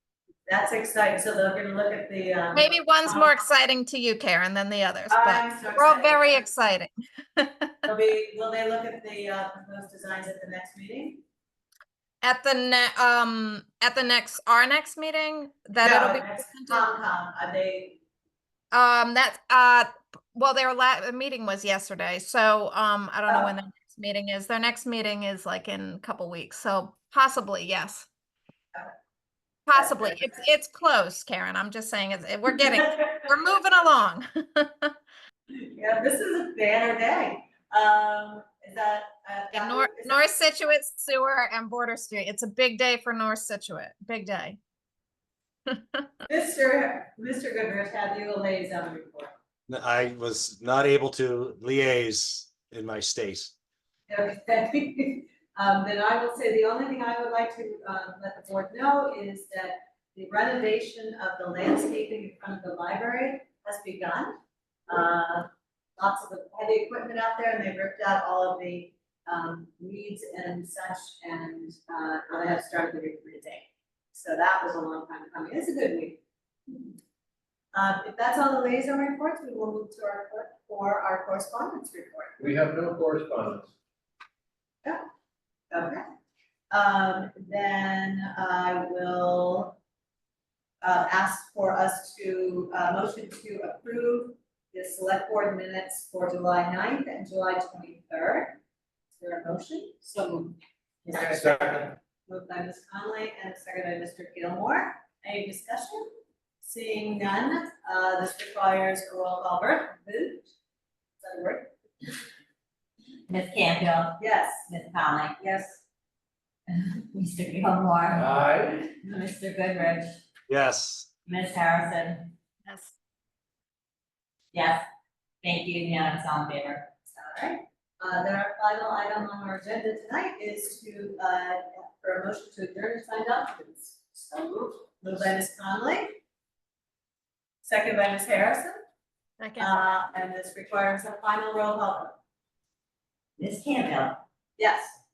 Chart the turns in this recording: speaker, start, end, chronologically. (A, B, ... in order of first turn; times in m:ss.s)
0:00.5-0:03.3 A
0:02.5-0:07.9 B
0:05.1-0:06.4 A
0:07.9-0:11.2 A
0:12.2-0:16.9 B
0:15.8-0:18.0 A
0:18.7-0:28.1 B
0:29.7-0:34.9 B
0:29.7-0:30.3 A
0:35.5-0:40.3 A
0:39.5-0:44.6 B
0:45.7-0:46.1 B
0:46.3-0:49.3 A
0:49.7-0:53.5 C
0:54.1-1:04.3 A
1:04.9-1:16.9 A
1:17.7-1:22.4 A
1:22.4-1:23.7 D
1:25.7-1:26.0 A
1:26.7-1:29.8 A
1:30.8-1:38.6 A
1:39.2-1:46.0 A
1:41.4-1:41.8 C
1:46.6-1:50.5 A
1:51.2-1:51.7 A
1:53.3-1:55.4 E
1:54.2-1:54.6 A
1:55.4-1:55.8 A
1:56.7-2:00.2 E
1:58.1-1:58.9 D
2:00.5-2:01.1 C
2:01.2-2:02.3 E
2:02.6-2:02.9 B
2:04.5-2:04.8 E
2:05.4-2:06.9 E
2:07.1-2:16.2 A
2:17.6-2:18.8 A
2:19.4-2:19.7 B
2:19.6-2:22.1 A
2:23.4-2:24.2 E
2:24.6-2:24.9 A